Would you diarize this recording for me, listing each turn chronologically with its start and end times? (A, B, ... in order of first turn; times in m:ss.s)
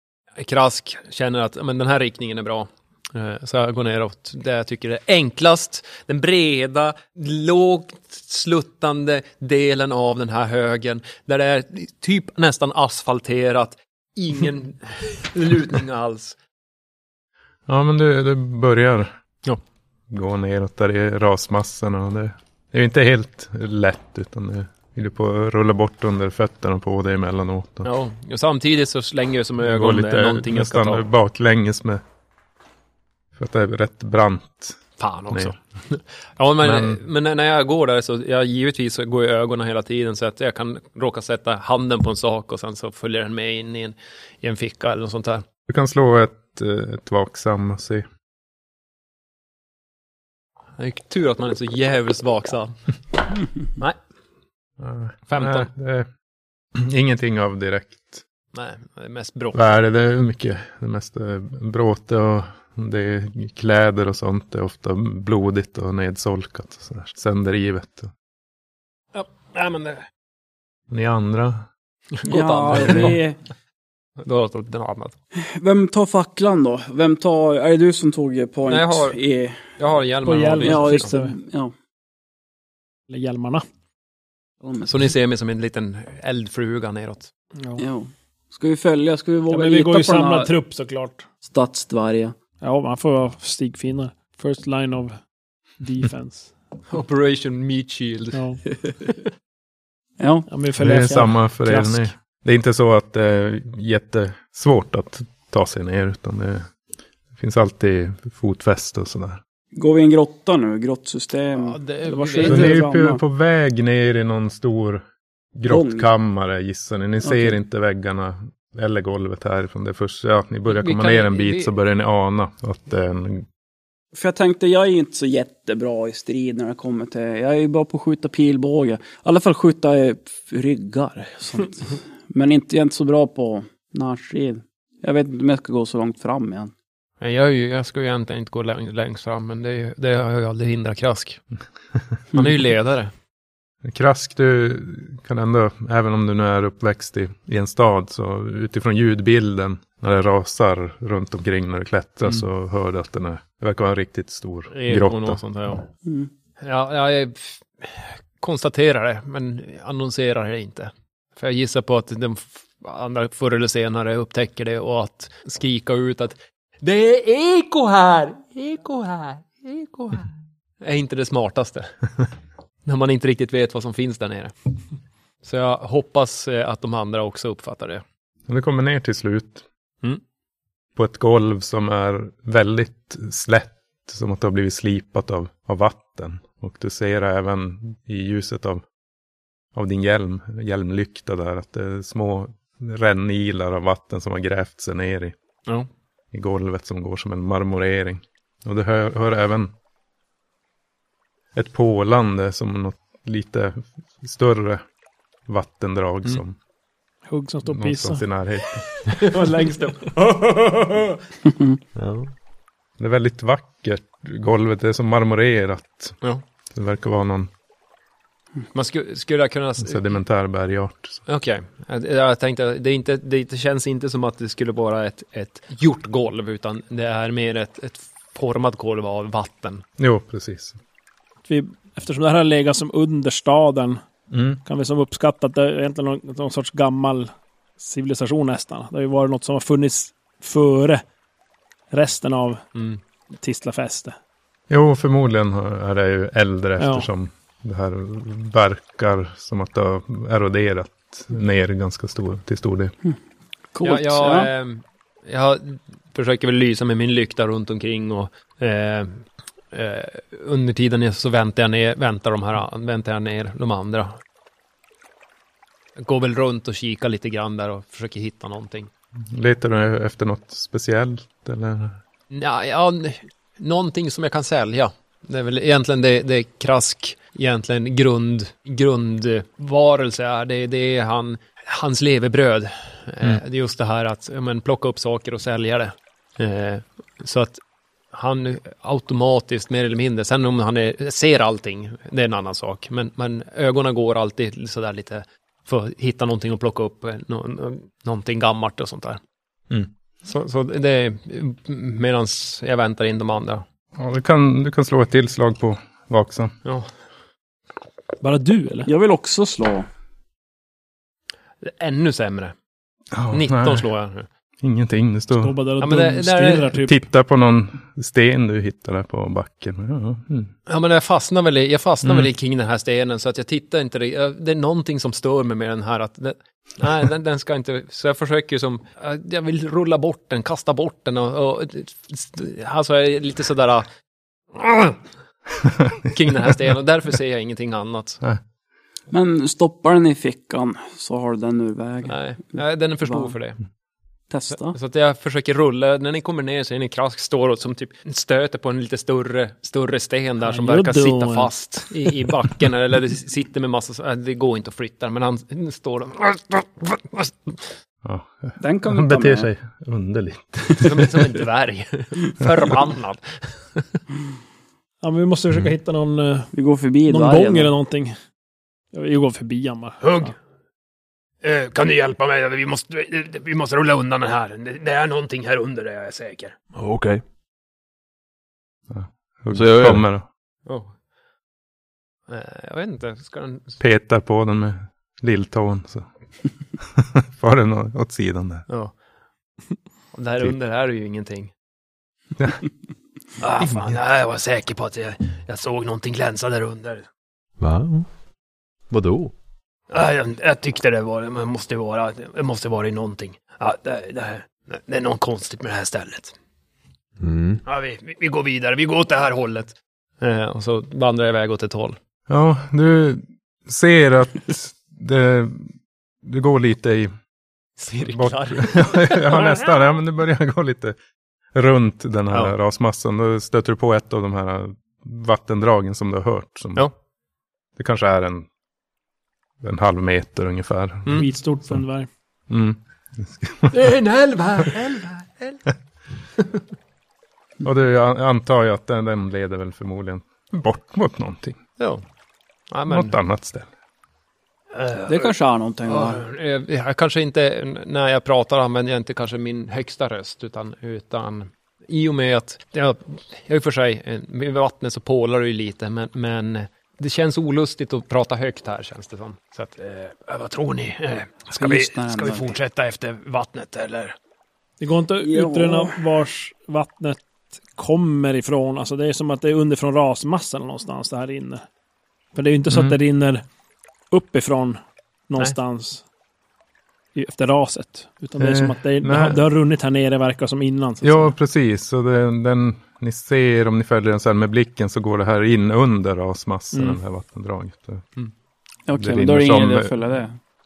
0:00.4-0:16.4 A
0:17.7-0:19.1 B
0:20.1-0:27.9 B
0:27.8-0:31.0 A
0:29.6-0:32.0 B
0:33.4-0:35.6 B
0:35.0-0:45.4 A
0:36.6-0:37.0 B
0:45.7-0:48.0 B
0:50.8-0:52.8 A
0:54.8-0:56.1 B
0:55.3-0:55.7 A
0:56.7-0:58.2 B
0:58.5-0:59.6 A
0:59.5-1:08.1 B
1:09.1-1:10.0 A
1:10.9-1:11.6 B
1:12.2-1:13.2 A
1:12.3-1:13.4 C
1:12.8-1:13.1 B
1:14.2-1:15.2 A
1:15.4-1:19.6 C
1:18.7-1:19.2 A
1:19.8-1:21.1 A
1:20.2-1:21.3 D
1:20.6-1:21.7 C
1:23.1-1:23.6 D
1:24.6-1:24.9 C
1:24.8-1:27.3 A
1:27.8-1:30.5 C
1:29.5-1:31.2 D
1:31.4-1:32.3 C
1:32.6-1:35.2 D
1:35.8-1:36.5 D
1:36.9-1:38.4 A
1:38.3-1:38.6 D
1:40.2-1:41.2 C
1:40.5-1:42.1 D
1:40.8-1:46.7 B
1:47.3-1:49.4 B
1:49.7-1:53.2 C
1:51.6-1:52.7 A
1:52.2-1:52.9 D
1:52.4-1:55.0 B
1:55.6-2:03.4 B
1:55.7-1:56.1 C
1:57.2-1:57.6 C
2:00.7-2:01.7 A
2:04.1-2:16.7 C
2:17.2-2:21.4 A
2:22.3-2:23.1 A
2:23.8-2:35.4 B
2:34.7-2:35.9 A
2:36.6-2:51.9 A
2:52.8-2:54.5 A
2:55.4-2:58.0 A
2:58.5-2:59.6 B
3:01.0-3:08.8 B
3:09.7-3:15.3 B
3:16.3-3:19.7 B
3:21.5-3:24.8 B
3:25.5-3:26.6 B
3:27.3-3:28.2 D
3:27.6-3:28.8 B
3:29.1-3:31.2 A
3:29.3-3:30.1 D
3:31.5-3:31.8 C
3:32.0-3:32.3 E
3:33.0-3:36.2 B
3:36.7-3:37.5 B
3:38.7-3:40.2 A
3:39.8-3:41.2 B
3:41.2-3:49.8 A
3:50.0-3:50.8 B
3:51.5-3:54.0 D
3:54.3-3:54.6 B
3:54.6-4:01.0 D
4:01.9-4:02.6 D
4:02.7-4:03.0 A
4:03.4-4:04.1 D
4:04.7-4:12.9 B
4:06.8-4:07.1 D
4:13.7-4:14.5 C
4:13.8-4:24.2 A
4:26.0-4:28.9 A
4:29.2-4:32.0 B
4:32.3-4:47.6 A
4:48.1-4:59.2 A
5:00.2-5:03.6 A
5:04.0-5:06.5 B
5:06.6-5:06.9 A
5:08.2-5:08.9 D
5:08.8-5:09.9 C
5:11.6-5:12.5 A
5:13.1-5:13.9 B
5:13.3-5:14.3 A
5:14.6-5:15.5 B
5:15.4-5:17.0 D
5:15.8-5:16.7 A
5:16.7-5:20.5 B
5:20.7-5:33.8 A
5:22.0-5:22.3 B
5:34.5-5:35.0 A
5:36.0-5:38.2 A
5:39.1-5:43.3 C
5:42.0-5:43.6 A
5:44.3-5:44.8 C
5:44.5-5:57.7 A
5:50.4-5:51.5 D
5:58.0-6:01.1 B
5:58.6-5:59.5 C
6:00.8-6:03.9 A
6:05.0-6:06.5 D
6:06.5-6:07.7 C
6:07.1-6:08.1 D
6:08.9-6:10.3 D
6:10.0-6:10.3 A
6:11.4-6:16.5 A
6:16.7-6:17.2 E
6:18.9-6:20.3 B
6:19.5-6:20.0 E
6:20.6-6:21.0 A
6:22.3-6:23.8 A
6:23.8-6:26.1 B
6:26.8-6:28.7 B
6:28.7-6:29.0 A
6:30.1-6:31.5 A
6:33.4-6:37.0 A
6:33.6-6:34.0 B
6:37.6-6:38.1 E
6:38.9-6:39.3 E
6:39.9-6:46.3 A
6:47.2-6:47.6 E
6:47.6-6:52.0 A
6:52.3-6:57.1 B
6:57.8-6:59.7 A
6:58.0-7:01.0 B
7:01.5-7:06.9 B
7:07.8-7:08.5 B
7:09.6-7:11.8 B
7:11.2-7:12.1 D
7:12.5-7:13.8 B
7:13.7-7:15.6 A
7:17.6-7:21.6 B
7:22.7-7:23.2 A
7:22.9-7:23.7 B
7:24.7-7:25.3 A
7:25.0-7:26.2 C
7:25.9-7:44.1 A
7:41.6-7:42.5 C
7:44.8-7:47.2 D
7:45.2-7:46.0 C
7:47.7-7:51.6 D
7:52.3-7:53.4 D
7:52.7-7:53.0 B
7:54.1-7:54.8 D
7:55.3-7:56.0 D
7:57.1-8:01.3 D
7:58.4-7:59.4 B
8:01.0-8:08.1 B
8:06.7-8:07.0 D
8:08.9-8:10.3 C
8:08.9-8:10.0 B